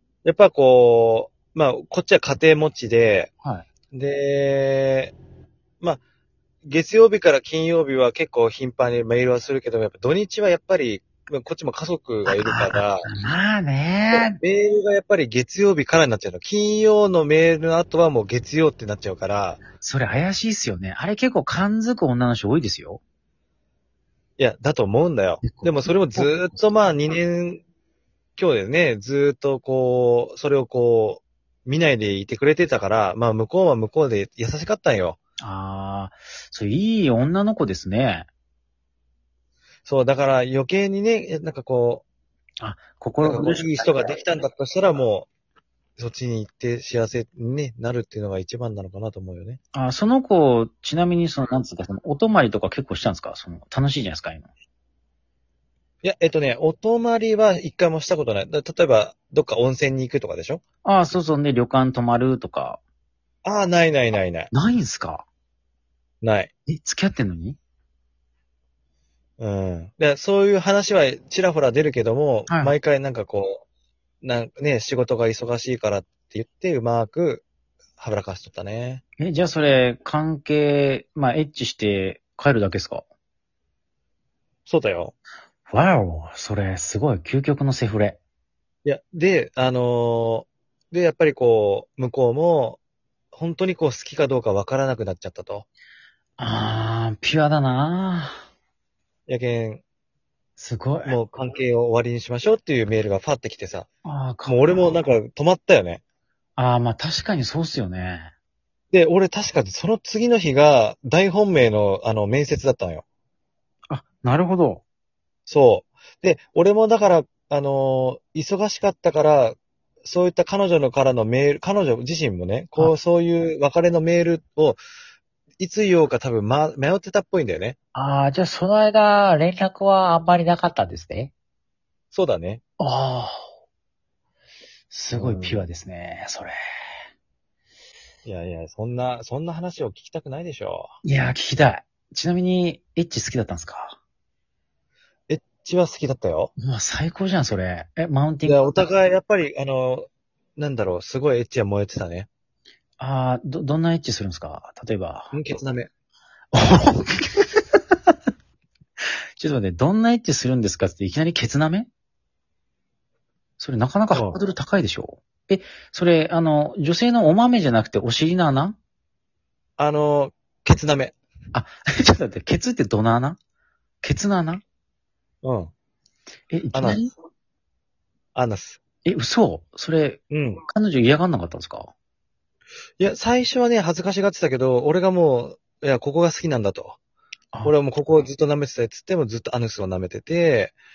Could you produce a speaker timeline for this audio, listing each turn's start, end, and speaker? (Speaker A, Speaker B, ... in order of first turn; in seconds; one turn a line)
Speaker A: 0.2-3.3
Speaker A: 3.9-5.1
Speaker A: 6.6-13.1
Speaker B: 12.2-14.4
Speaker A: 14.1-19.6
Speaker B: 19.8-23.0
Speaker A: 24.4-27.6
Speaker B: 25.4-26.6
Speaker A: 28.4-35.2
Speaker B: 35.4-38.3
Speaker A: 39.9-42.0
Speaker B: 42.6-44.2
Speaker A: 43.2-45.3
Speaker A: 46.0-49.6
Speaker B: 49.7-54.5
Speaker A: 56.0-60.6
Speaker B: 60.8-62.8
Speaker A: 63.4-64.5
Speaker B: 64.5-65.2
Speaker A: 66.2-66.5
Speaker B: 66.7-67.6
Speaker A: 69.4-73.6
Speaker B: 72.5-72.7
Speaker A: 74.2-77.4
Speaker A: 78.0-79.0
Speaker B: 79.2-83.0
Speaker A: 84.7-85.1
Speaker B: 85.7-88.2
Speaker A: 88.8-92.8
Speaker A: 93.3-95.7
Speaker B: 96.4-98.4
Speaker A: 99.3-99.8
Speaker B: 100.6-101.2
Speaker A: 101.0-103.9
Speaker B: 104.0-104.9
Speaker A: 104.5-106.0
Speaker B: 106.6-108.3
Speaker A: 108.9-113.0
Speaker B: 113.9-114.8
Speaker A: 115.5-124.8
Speaker A: 125.6-127.8
Speaker B: 127.9-131.3
Speaker A: 132.1-132.6
Speaker B: 132.8-133.4
Speaker B: 134.9-136.5
Speaker A: 135.1-135.7
Speaker A: 138.2-140.9
Speaker B: 141.0-144.0
Speaker A: 145.3-146.5
Speaker B: 146.6-148.7
Speaker A: 148.4-152.3
Speaker B: 153.0-155.3
Speaker A: 155.3-155.9
Speaker B: 156.5-157.6
Speaker B: 159.4-161.9
Speaker B: 163.6-168.8
Speaker A: 164.1-164.4
Speaker A: 169.8-171.1
Speaker B: 171.5-173.4
Speaker B: 174.0-174.6
Speaker A: 175.4-175.7
Speaker B: 176.5-177.1
Speaker A: 176.7-177.0
Speaker A: 178.3-178.8
Speaker B: 179.0-181.9
Speaker A: 180.3-180.6
Speaker A: 183.0-187.0
Speaker A: 187.6-190.7